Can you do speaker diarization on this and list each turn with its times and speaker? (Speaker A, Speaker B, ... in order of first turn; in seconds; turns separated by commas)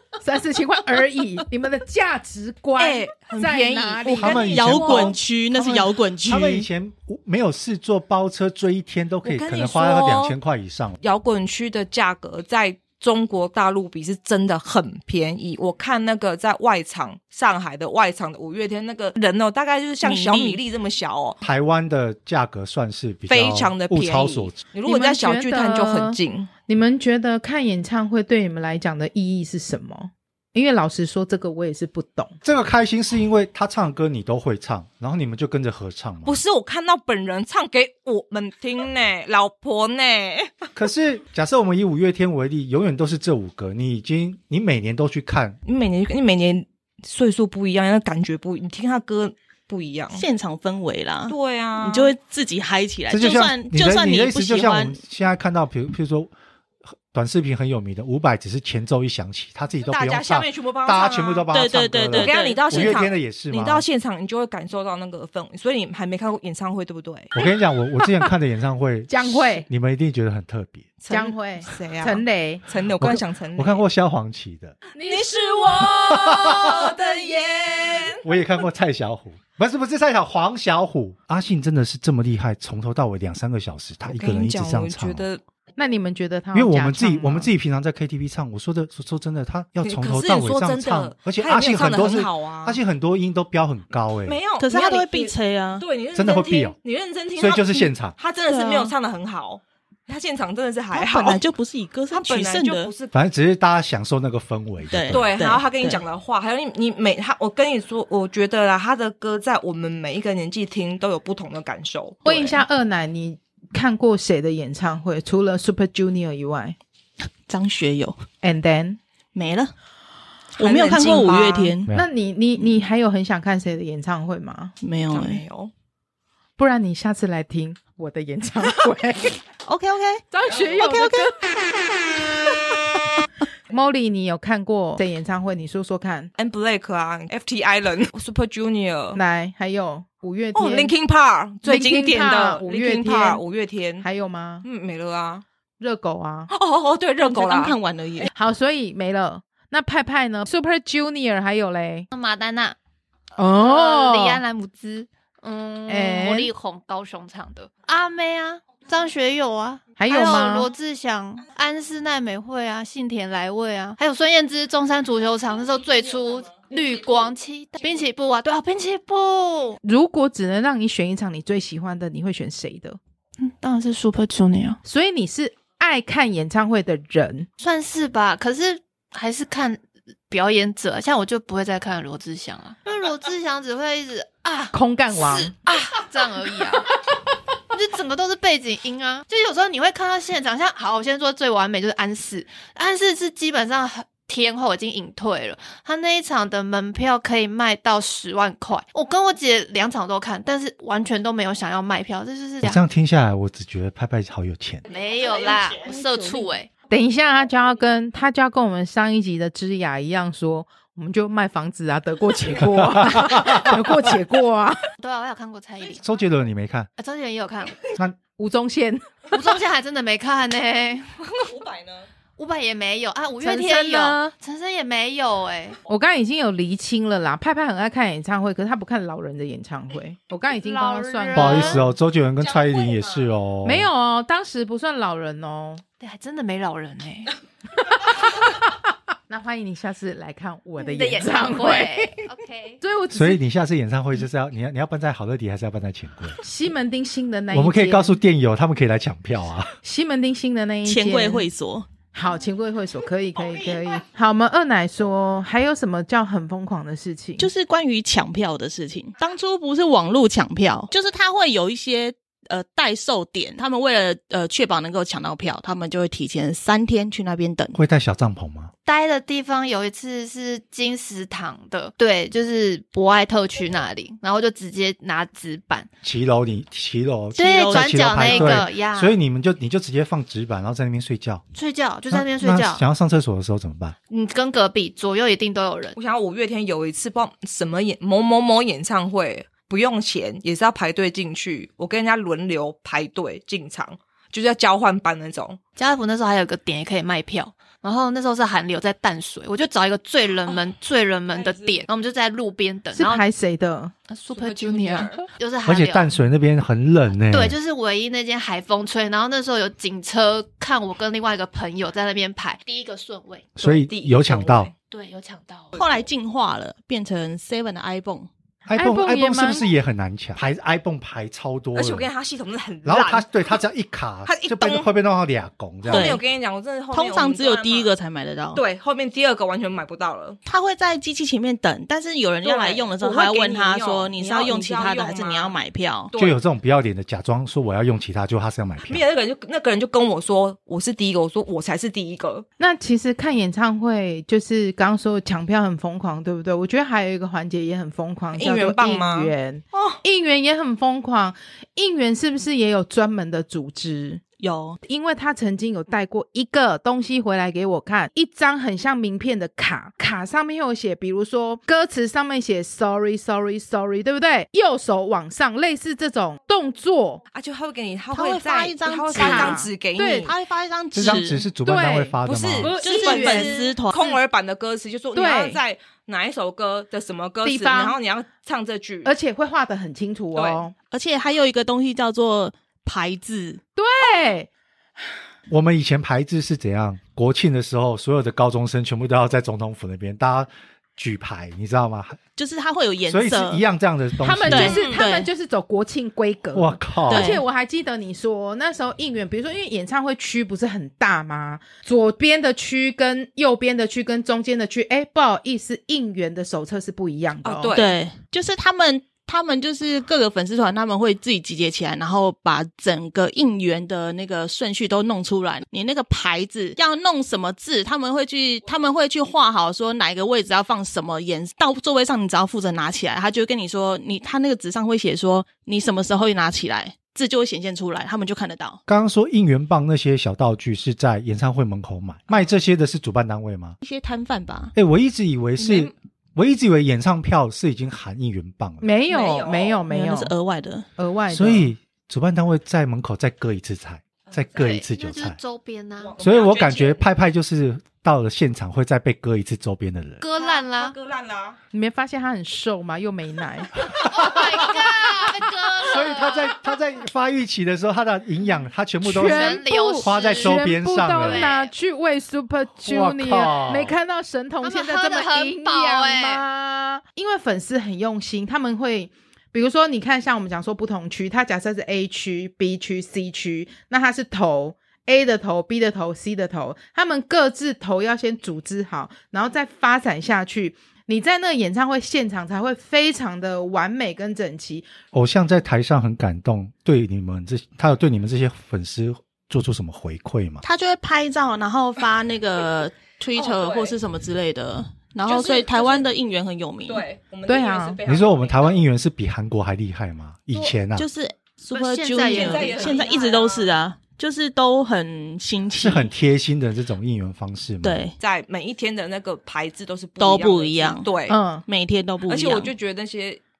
Speaker A: 0.2-4.9, Speaker B: 2.8-5.2, Speaker C: 4.2-11.0, Speaker D: 4.2-6.7, Speaker B: 9.2-10.4, Speaker B: 11.0-21.4, Speaker D: 20.0-20.6, Speaker C: 21.4-24.6, Speaker B: 23.3-26.5, Speaker A: 24.9-32.4, Speaker C: 32.4-36.4, Speaker B: 36.2-40.7, Speaker C: 40.8-45.6, Speaker B: 45.6-50.2, Speaker D: 50.1-55.0, Speaker B: 51.3-52.1, Speaker C: 53.1-56.3, Speaker C: 57.1-63.9, Speaker B: 59.8-61.5, Speaker D: 61.5-63.0, Speaker B: 62.1-67.3, Speaker C: 67.3-70.9, Speaker A: 69.1-69.7, Speaker B: 71.0-73.8, Speaker A: 71.1-72.6, Speaker C: 73.0-74.8, Speaker B: 75.0-78.2, Speaker A: 75.0-75.9, Speaker C: 76.1-76.6, Speaker C: 78.2-85.3, Speaker B: 84.1-85.4, Speaker A: 85.8-87.5, Speaker C: 86.5-94.4, Speaker B: 89.8-92.8, Speaker B: 94.2-101.4, Speaker D: 94.6-95.8, Speaker C: 96.1-96.8, Speaker C: 97.4-98.2, Speaker D: 98.5-98.9, Speaker D: 100.9-102.9, Speaker B: 102.1-103.1, Speaker C: 103.1-105.2, Speaker D: 104.9-106.0, Speaker B: 105.1-112.6, Speaker A: 112.2-116.8, Speaker D: 117.5-118.2, Speaker A: 118.4-119.0, Speaker D: 119.3-119.7, Speaker D: 120.6-121.9, Speaker B: 120.6-121.8, Speaker A: 121.9-124.8, Speaker D: 124.8-125.4, Speaker B: 125.1-125.7, Speaker A: 126.6-129.4, Speaker D: 129.7-131.3, Speaker A: 130.3-131.6, Speaker A: 133.7-136.3, Speaker B: 136.4-139.2, Speaker A: 139.2-140.9, Speaker B: 140.6-144.1, Speaker A: 141.7-143.4, Speaker A: 144.0-144.7, Speaker B: 144.6-145.4, Speaker A: 145.8-146.5, Speaker B: 146.5-148.3, Speaker D: 147.2-148.3, Speaker A: 148.3-152.1, Speaker E: 152.1-152.8, Speaker A: 153.4-154.4, Speaker E: 153.6-169.8, Speaker A: 155.9-156.5, Speaker A: 160.0-160.7, Speaker A: 169.8-173.0, Speaker E: 173.4-174.8, Speaker A: 174.8-177.5, Speaker E: 177.6-187.0, Speaker A: 184.7-185.6, Speaker E: 187.7-202.8, Speaker C: 202.6-204.8, Speaker E: 204.9-206.7, Speaker A: 205.9-214.9, Speaker C: 213.0-213.7, Speaker E: 215.0-216.0, Speaker C: 216.0-216.9, Speaker E: 217.0-217.8, Speaker A: 218.4-219.1, Speaker E: 219.3-221.2, Speaker B: 221.3-222.1, Speaker E: 222.4-225.8, Speaker A: 223.4-224.3, Speaker A: 225.9-231.9, Speaker E: 230.5-231.9, Speaker C: 231.3-233.9, Speaker B: 232.4-233.3, Speaker A: 233.6-235.8, Speaker E: 236.0-237.3, Speaker A: 239.3-242.2, Speaker E: 240.8-242.8, Speaker A: 242.8-243.4, Speaker C: 243.1-246.4, Speaker A: 246.4-248.2, Speaker C: 247.5-249.8, Speaker A: 249.8-251.5, Speaker D: 250.8-251.9, Speaker A: 252.1-257.5, Speaker D: 257.4-267.8, Speaker C: 267.7-268.7, Speaker E: 268.9-275.9, Speaker C: 276.0-281.4, Speaker E: 277.4-279.1, Speaker D: 277.4-278.7, Speaker E: 281.5-282.8, Speaker C: 282.1-283.9, Speaker E: 284.1-286.0, Speaker B: 285.9-295.6, Speaker E: 295.8-303.2, Speaker B: 301.3-301.8, Speaker A: 302.9-303.9, Speaker E: 304.1-306.1, Speaker B: 304.3-305.3, Speaker C: 305.6-307.6, Speaker E: 307.3-313.6, Speaker C: 313.6-314.7, Speaker B: 313.6-314.7, Speaker E: 314.9-315.8, Speaker D: 315.8-318.3, Speaker C: 318.6-322.1, Speaker A: 318.8-319.6, Speaker B: 321.8-323.6, Speaker C: 322.9-326.2, Speaker B: 324.3-324.9, Speaker D: 325.9-326.2, Speaker B: 325.9-327.9, Speaker D: 326.9-328.6, Speaker B: 328.5-330.4, Speaker D: 330.4-336.1, Speaker B: 332.4-335.6, Speaker B: 336.1-336.4, Speaker C: 336.1-339.0, Speaker B: 338.9-342.5, Speaker A: 342.6-354.2, Speaker B: 348.4-349.3, Speaker D: 354.4-354.8, Speaker A: 354.8-367.2, Speaker B: 367.3-370.3, Speaker D: 368.1-371.5, Speaker A: 369.1-370.3, Speaker C: 370.9-372.7, Speaker A: 371.6-373.6, Speaker B: 372.3-379.1, Speaker D: 372.8-374.1, Speaker A: 375.1-375.6, Speaker A: 377.4-378.0, Speaker A: 379.1-380.7, Speaker B: 380.4-380.7, Speaker D: 380.9-383.6, Speaker A: 383.8-384.5, Speaker C: 385.5-392.2, Speaker D: 392.4-393.6, Speaker C: 393.1-394.8, Speaker A: 394.2-407.8, Speaker D: 394.4-395.3, Speaker B: 394.7-395.0, Speaker C: 396.5-397.4, Speaker D: 397.1-397.4, Speaker B: 407.4-408.0, Speaker D: 407.7-428.8, Speaker C: 428.9-433.8, Speaker D: 433.8-434.7, Speaker C: 434.8-438.9, Speaker B: 435.6-435.9, Speaker A: 438.8-440.3, Speaker B: 439.1-439.8, Speaker D: 439.9-440.9, Speaker A: 441.0-441.7, Speaker C: 441.3-445.4, Speaker E: 444.5-446.1, Speaker B: 446.0-447.1, Speaker C: 446.2-450.2, Speaker E: 450.2-450.9, Speaker B: 450.4-451.6, Speaker A: 451.7-453.7, Speaker C: 454.0-454.4, Speaker E: 454.0-456.6, Speaker C: 455.8-461.5, Speaker E: 459.1-460.6, Speaker A: 459.1-484.9, Speaker E: 461.2-461.7, Speaker C: 462.9-463.9, Speaker E: 464.6-466.4, Speaker C: 485.1-490.6, Speaker D: 490.6-497.1, Speaker B: 493.4-494.0, Speaker B: 495.2-496.1, Speaker B: 496.9-498.8, Speaker A: 497.5-498.0, Speaker C: 498.1-501.1, Speaker D: 501.0-506.1, Speaker E: 501.7-503.2, Speaker B: 502.2-503.7, Speaker C: 505.7-508.1, Speaker D: 507.8-508.2, Speaker B: 508.2-511.4, Speaker D: 510.2-512.7, Speaker A: 511.3-511.6, Speaker B: 512.3-513.4